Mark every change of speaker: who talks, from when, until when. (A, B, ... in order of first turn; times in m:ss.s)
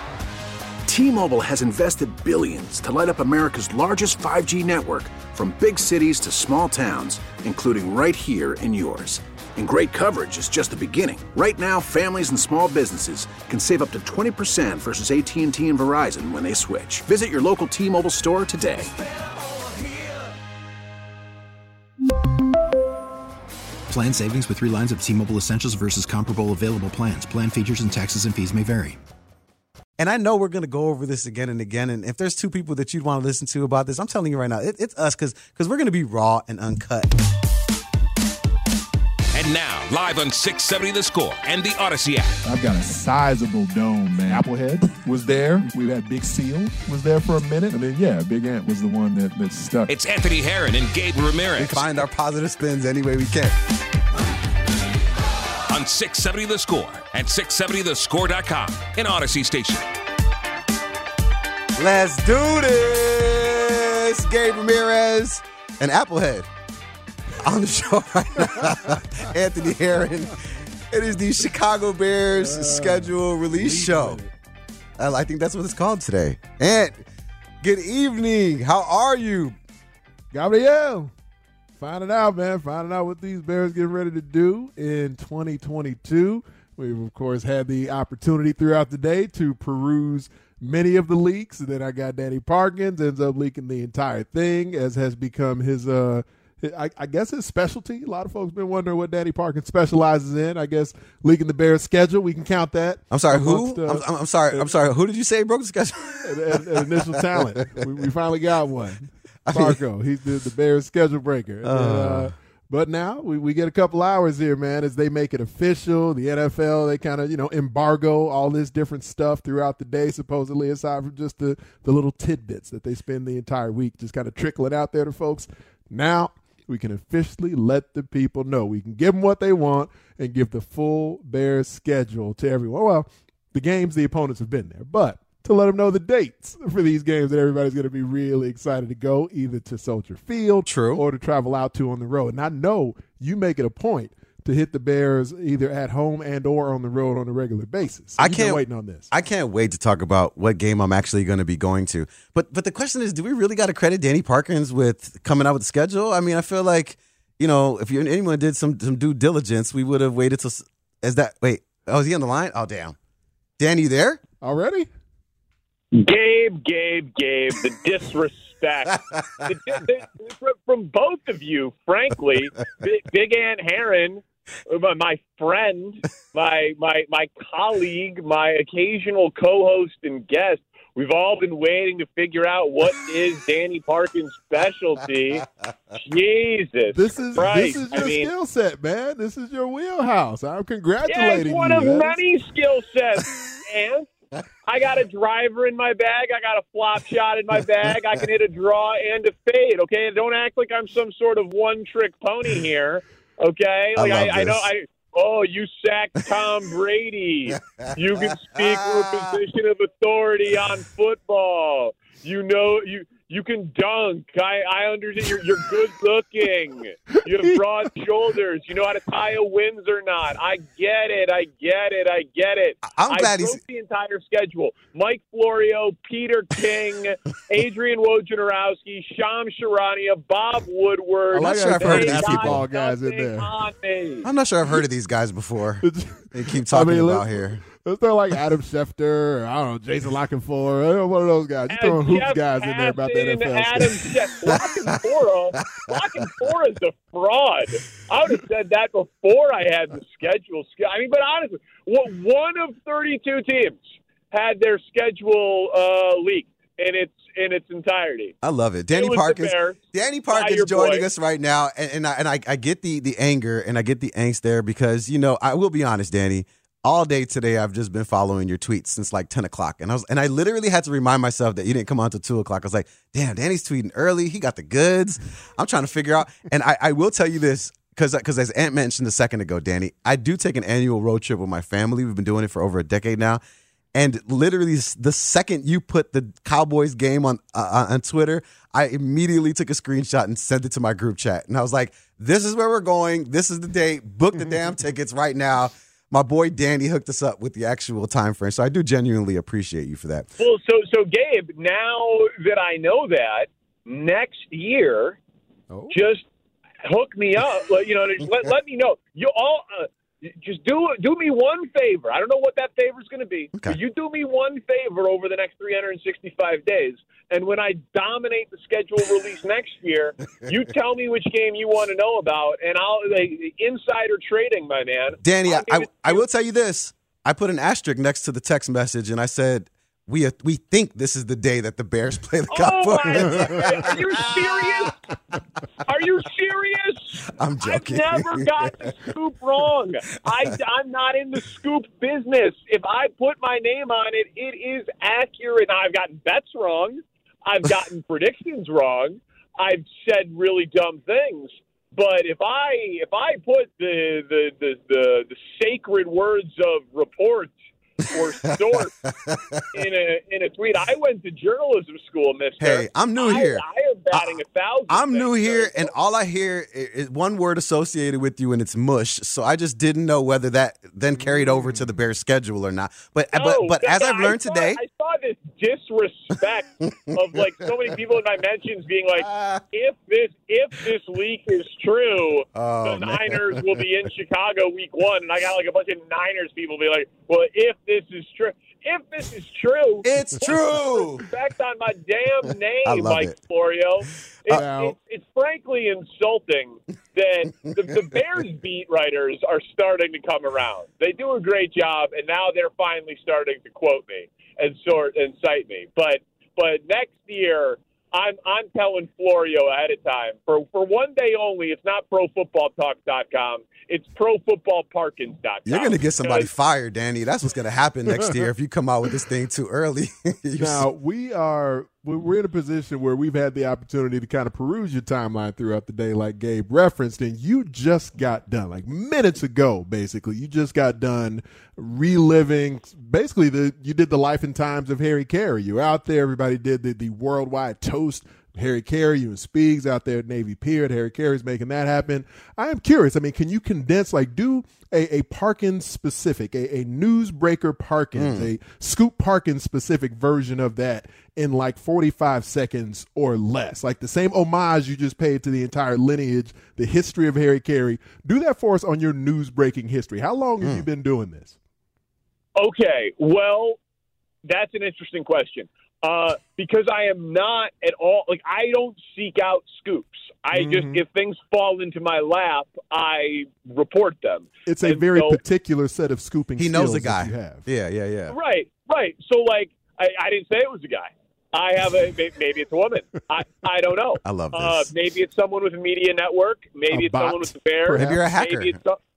0:00.8-0:18.9 A
0:23.9-0:29.0 B
0:30.0-0:37.1 C
0:39.3-0:42.4 D
0:42.4-0:49.9 E
0:49.9-0:51.9 D
0:51.6-0:53.5 C
0:55.7-0:59.9 D
1:01.8-1:06.5 C
1:07.4-1:10.3 C
1:10.9-1:14.2 C
1:12.4-1:14.3 E
1:15.0-1:17.0 C
1:17.6-1:19.6 C
1:20.3-1:21.1 E
1:21.8-1:44.7 E
1:43.1-1:47.3 C
1:46.2-2:29.1 E
1:49.5-1:49.8 C
1:51.6-1:52.3 C
2:20.6-2:21.0 C
2:28.2-2:43.0 C
2:43.6-2:44.2 C
2:44.4-2:44.9 E
2:45.9-3:05.5 F
3:06.0-3:08.3 F
3:06.9-3:12.2 E
3:11.0-3:14.1 F
3:14.6-3:54.3 F
3:24.0-3:24.7 C
3:27.5-3:27.8 C
3:28.5-3:29.4 C
3:42.8-3:43.6 C
3:51.3-3:53.6 E
3:51.4-3:52.6 C
3:54.2-3:57.6 C
3:55.8-4:04.5 E
4:01.7-4:18.3 F
4:18.4-4:43.4 C
4:18.9-4:19.8 F
4:20.3-4:21.0 F
4:43.9-5:00.3 C
5:00.4-5:05.2 F
5:05.9-5:06.2 F
5:06.8-5:26.2 F
5:25.2-5:34.9 C
5:32.5-5:34.9 F
5:35.8-5:57.5 F
5:37.4-5:38.9 C
5:58.1-5:58.9 F
5:59.2-5:59.6 C
5:59.7-6:05.9 F
6:02.6-6:14.8 C
6:11.2-6:11.8 E
6:13.3-6:56.5 F
6:19.2-6:19.6 C
6:22.5-6:23.6 C
6:30.0-6:31.2 C
6:32.8-6:33.3 C
6:34.5-6:34.9 E
6:55.6-7:00.8 C
7:00.6-7:41.6 E
7:28.2-7:28.5 C
7:42.6-7:43.8 F
7:44.4-7:55.4 F
7:50.5-7:51.0 E
7:54.6-7:57.7 E
7:56.6-7:58.3 C
7:58.3-8:09.0 F
8:04.2-8:04.9 C
8:06.9-8:08.2 E
8:07.9-8:08.7 C